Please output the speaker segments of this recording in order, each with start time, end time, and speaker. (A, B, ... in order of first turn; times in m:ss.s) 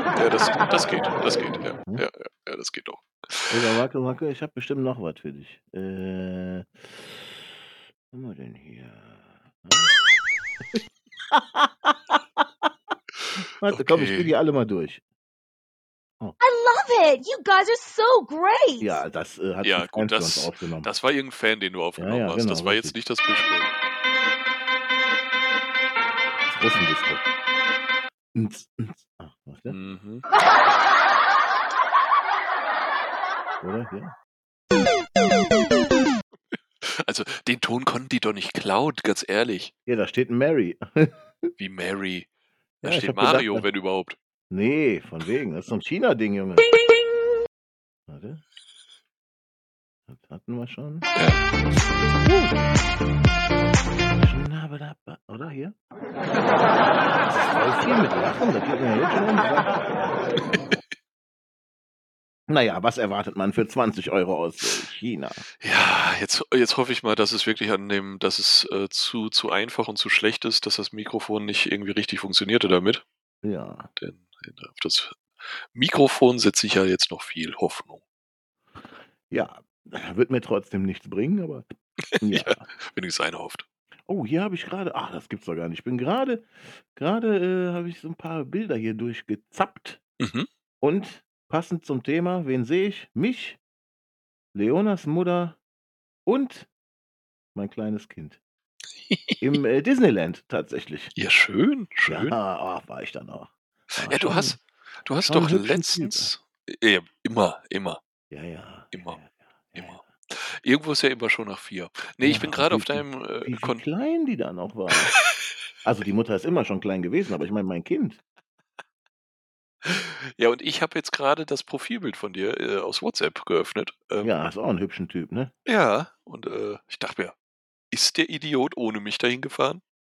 0:00.2-0:03.7 A
0:03.5-0:07.6 B
0:08.1-0:10.0 B
0:10.7-0:12.7 B
0:13.6-0:15.0 B
0:13.7-0:14.3 A
0:16.4-0:19.0 C
0:18.8-0:20.9 B
0:19.6-0:23.7 A
0:22.0-0:23.0 B
0:26.4-0:27.3 B
0:28.4-0:29.8 B
0:29.7-0:30.2 A
0:33.6-0:34.2 B
0:36.5-0:39.7 A
0:39.9-0:41.5 B
0:41.6-0:42.3 A
0:42.8-0:43.7 B
0:42.8-0:44.2 A
0:44.5-0:46.7 B
0:48.1-0:48.4 B
0:50.1-0:51.1 B
0:51.2-0:51.4 A
0:52.2-0:52.6 B
0:54.2-0:55.8 B
0:57.3-1:00.0 B
1:02.5-1:05.4 B
1:05.6-1:13.0 A
1:13.4-1:13.9 B
1:14.0-1:15.2 A
1:15.7-1:18.0 A
1:19.3-1:21.7 B
1:22.2-1:23.6 A
1:22.2-1:22.6 B
1:24.1-1:30.0 B
1:30.2-1:30.5 A
1:30.8-1:33.6 B
1:34.5-1:35.6 B
1:36.3-1:36.7 B
1:37.6-1:38.4 B
1:39.1-1:39.4 A
1:39.4-1:41.1 B
1:41.2-1:42.4 A
1:42.1-1:44.6 B
1:44.0-1:48.0 A
1:45.2-1:46.3 B
1:48.3-1:50.0 B
1:48.9-1:49.2 A
1:49.8-1:53.8 A
1:52.2-1:55.1 B
1:55.8-1:58.2 B
1:59.8-2:04.3 A
2:04.2-2:05.5 B
2:05.7-2:07.3 A
2:07.9-2:09.8 A